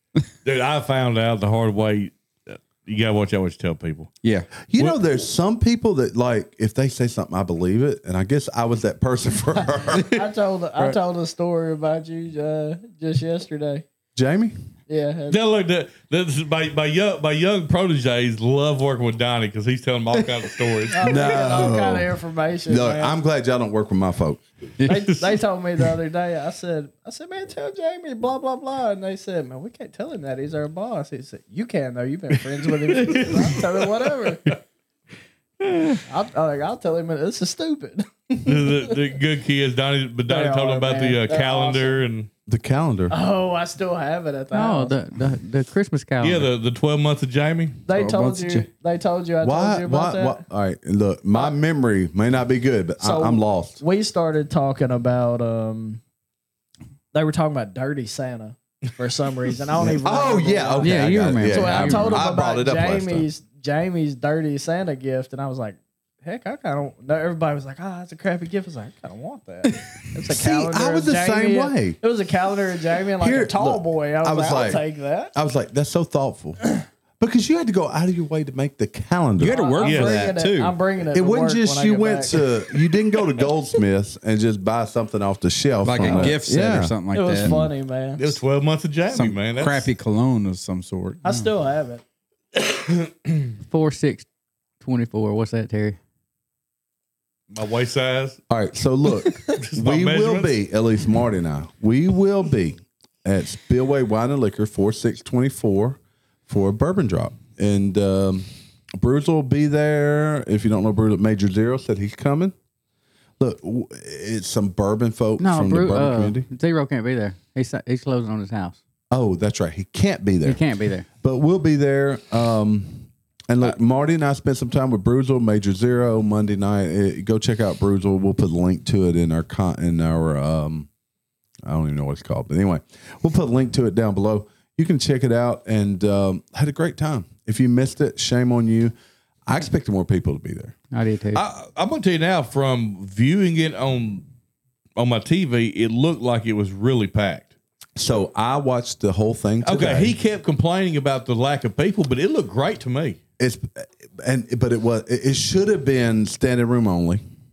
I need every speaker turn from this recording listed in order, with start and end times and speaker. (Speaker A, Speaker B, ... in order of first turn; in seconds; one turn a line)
Speaker A: 0.4-4.1
Speaker B: 4.2-4.5
Speaker C: 4.7-10.2
Speaker D: 9.9-13.8
Speaker C: 14.2-14.5
Speaker D: 14.9-15.4
Speaker A: 15.3-21.5
Speaker D: 20.9-23.1
Speaker C: 21.0-22.1
Speaker C: 22.7-24.4
Speaker D: 24.8-34.6
Speaker A: 32.9-34.5
Speaker D: 36.1-39.0
Speaker A: 38.4-42.3
Speaker D: 40.2-42.0
Speaker C: 42.5-43.1
Speaker D: 43.1-44.9
Speaker E: 44.5-46.5
Speaker A: 46.2-47.8
Speaker D: 47.9-50.4
Speaker B: 47.9-48.7
Speaker C: 49.4-53.8
Speaker D: 53.0-56.0
Speaker D: 57.1-75.3
Speaker C: 59.8-63.3
Speaker E: 60.8-62.2
Speaker C: 70.3-72.0
Speaker C: 73.2-76.6
Speaker C: 77.2-79.6
Speaker B: 79.4-80.8
Speaker D: 79.4-82.4
Speaker A: 79.8-80.3
Speaker C: 81.1-87.7
Speaker B: 85.8-87.6
Speaker D: 86.0-86.3
Speaker D: 87.1-88.3
Speaker A: 88.2-89.9
Speaker B: 89.1-91.5
Speaker D: 91.2-92.0
Speaker A: 92.5-93.3
Speaker E: 93.7-94.2
Speaker E: 94.8-96.0
Speaker A: 97.5-98.4
Speaker C: 98.5-112.5
Speaker A: 99.6-100.5
Speaker C: 113.4-116.5
Speaker E: 115.4-118.8
Speaker C: 119.1-120.6
Speaker E: 120.4-121.1
Speaker C: 121.2-130.9
Speaker C: 131.6-138.9
Speaker C: 139.4-140.7
Speaker E: 140.9-141.4
Speaker A: 141.3-144.2
Speaker A: 144.9-147.5
Speaker C: 147.9-150.2
Speaker A: 149.6-153.2
Speaker C: 153.4-157.2